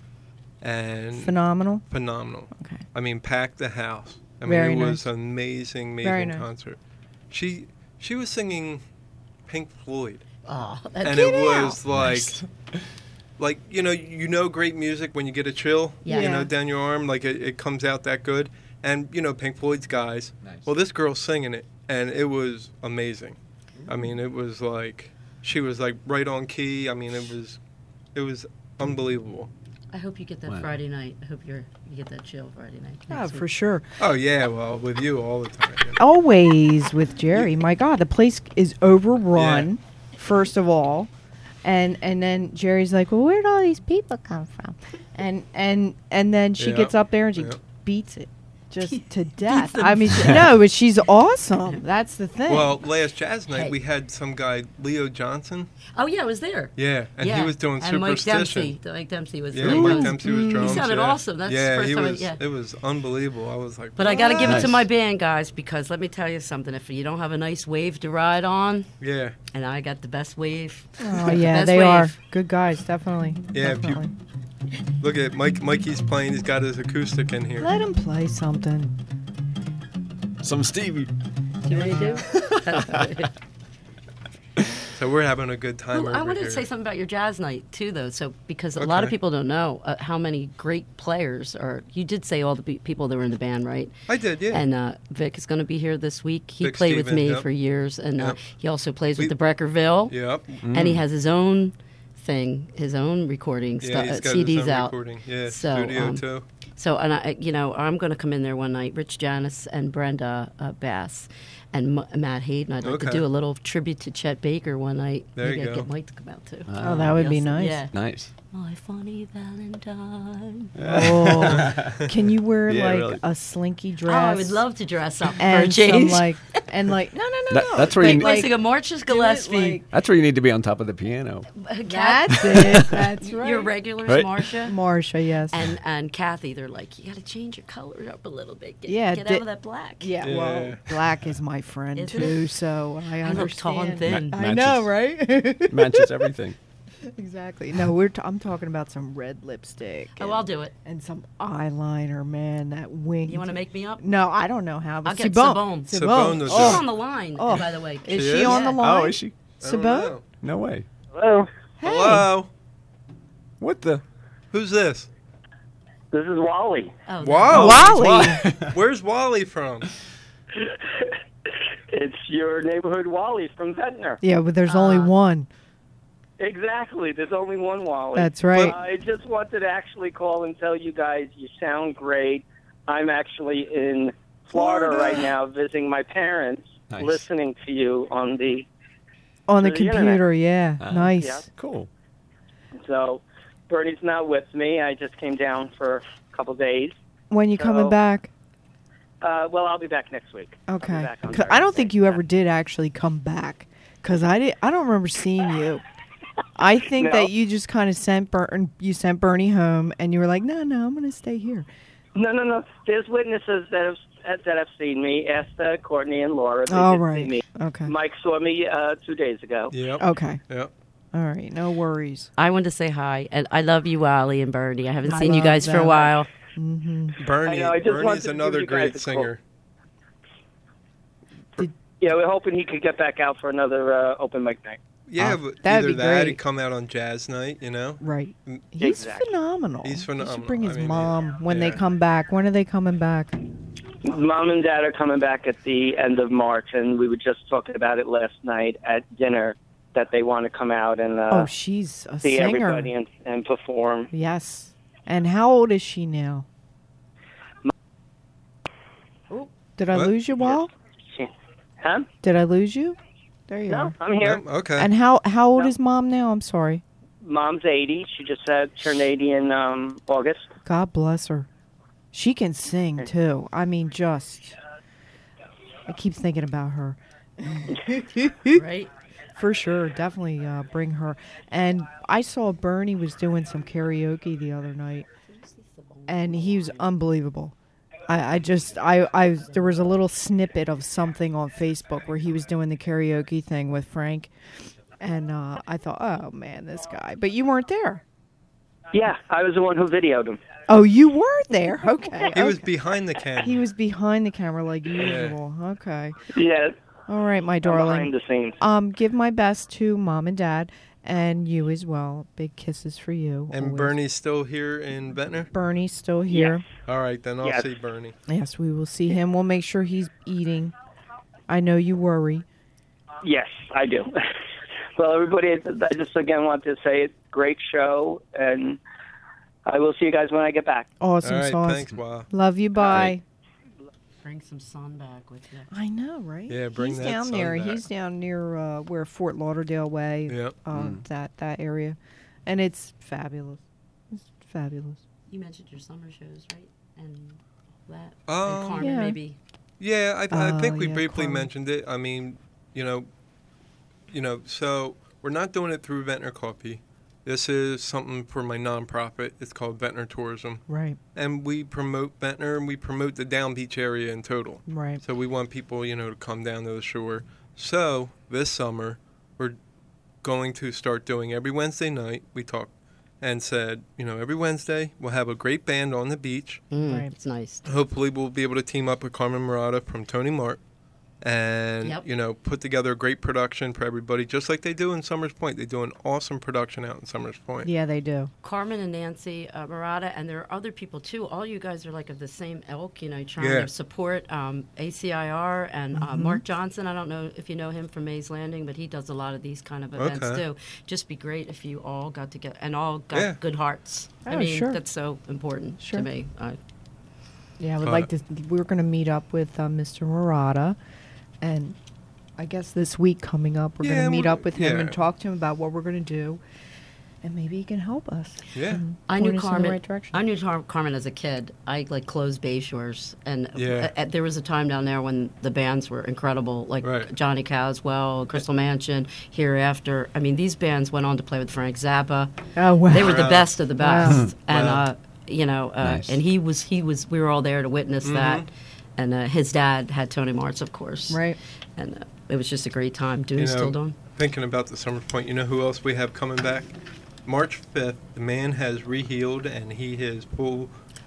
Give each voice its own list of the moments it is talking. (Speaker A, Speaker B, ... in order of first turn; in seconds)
Speaker A: 0.6-1.4, 1.9-6.8, 7.3-8.8, 9.5-10.2, 11.0-12.4, 13.4-27.6, 28.1-29.5, 34.0-36.0, 39.3-39.7, 46.6-47.6, 52.5-55.7, 56.8-58.8, 59.5-64.7, 69.0-69.3, 73.5-74.0, 75.0-77.7, 85.0-86.7, 88.8-89.1, 94.1-94.6, 96.6-97.5, 100.1-100.5, 103.8-106.5, 112.8-113.2, 115.4-115.9, 140.2-140.8, 155.9-156.8, 158.1-158.6, 159.6-160.2, 161.8-162.5, 164.5-165.1, 167.2-169.9, 184.6-185.1, 219.7-220.7, 227.2-229.4, 235.1-238.7, 239.8-241.8, 264.2-264.9, 302.3-303.6, 305.0-305.4, 313.5-315.5, 316.9-318.1, 331.2-332.3, 336.5-337.8, 340.3-340.6, 348.3-348.9, 349.8-353.1, 354.1-360.6, 361.1-369.6, 370.2-376.6, 377.6-380.6, 381.2-387.7, 393.4-393.7, 399.9-400.4, 403.1-403.4, 407.8-408.1, 413.8-415.0, 418.5-418.8, 423.6-423.9, 426.8-427.1, 433.0-433.5, 434.5-434.8, 438.1-438.5, 443.4-446.7, 447.3-450.7
Speaker B: 1.1-1.8, 2.5-2.8, 4.4-5.0, 6.0-6.5, 16.1-16.5, 33.1-33.9, 36.0-41.1, 41.6-52.8, 59.7-60.8, 71.0-74.1, 77.6-79.0, 81.7-82.2, 116.8-117.9, 120.9-124.6, 125.4-129.9, 131.9-133.7, 134.6-135.6, 138.9-139.4, 140.0-146.3, 147.0-160.2, 161.8-162.3, 167.5-168.4, 174.2-175.5, 178.1-178.7, 189.5-191.5, 197.3-198.3, 200.7-205.8, 206.6-211.7, 216.7-217.9, 220.0-220.4, 221.1-222.3, 225.1-227.2, 235.2-236.4, 238.0-243.4, 251.3-252.9, 254.1-256.4, 259.3-260.7, 262.2-263.9, 264.8-266.8, 270.6-271.5, 272.1-274.6, 275.9-278.6, 279.3-285.1, 286.1-287.6, 288.1-294.3, 295.0-298.0, 300.7-302.7, 303.4-306.2, 307.1-313.9, 315.5-316.6, 318.3-320.7, 321.5-322.4, 331.0-333.2, 335.7-345.0, 348.8-349.2, 350.3-351.5, 360.7-361.0, 364.7-365.0, 376.8-377.1, 387.6-388.3, 395.9-396.4, 404.3-404.8, 405.8-406.1, 407.6-410.8, 411.4-411.8, 412.4-416.4, 417.2-420.2, 432.6-434.2, 441.1-441.4
Speaker C: 10.4-11.8, 16.1-16.4, 29.9-33.5, 48.8-50.5, 53.5-53.8, 56.0-62.4, 64.0-68.9, 69.5-72.1, 81.7-83.3, 85.9-93.9, 94.5-100.1, 100.7-106.2, 106.8-118.0, 118.5-120.7, 124.0-126.6, 127.9-129.8, 131.5-134.8, 135.5-140.1, 141.9-142.5, 143.2-144.4, 150.2-150.7, 153.3-154.0, 155.1-158.8, 167.1-167.9, 174.7-175.1, 222.4-226.3, 278.5-278.9, 285.3-286.9, 334.2-335.7, 345.3-349.4, 376.7-377.7, 388.4-406.6, 419.1-432.3, 432.9-441.2, 441.8-443.9
Speaker D: 11.9-12.4, 20.4-20.7, 23.8-24.1, 30.4-30.7, 64.4-64.8, 80.4-81.1, 82.3-83.1, 100.6-101.0, 116.7-117.3, 117.9-118.3, 120.7-122.1, 122.7-123.2, 127.5-128.4, 129.9-131.5, 132.5-132.9, 134.1-134.3, 144.1-144.9, 145.7-146.6, 158.8-159.4, 160.4-160.8, 163.6-164.0, 167.7-168.7, 186.9-187.2, 190.8-191.9, 340.7-341.0, 435.8-436.2
Speaker E: 161.1-161.5, 166.1-166.9, 170.6-171.1, 171.9-174.2, 176.4-188.7, 189.6-190.2, 191.2-191.4, 192.8-196.9, 197.6-197.9, 199.2-202.2, 207.0-207.3, 212.1-219.7, 227.4-229.3, 232.0-234.8, 238.8-239.3, 244.0-251.5, 252.2-254.1, 261.8-262.1, 263.7-264.4, 267.2-270.5, 298.9-300.4, 306.3-306.7, 307.6-308.6, 316.3-316.6, 317.4-317.7, 323.2-324.1, 324.9-328.8, 329.7-330.9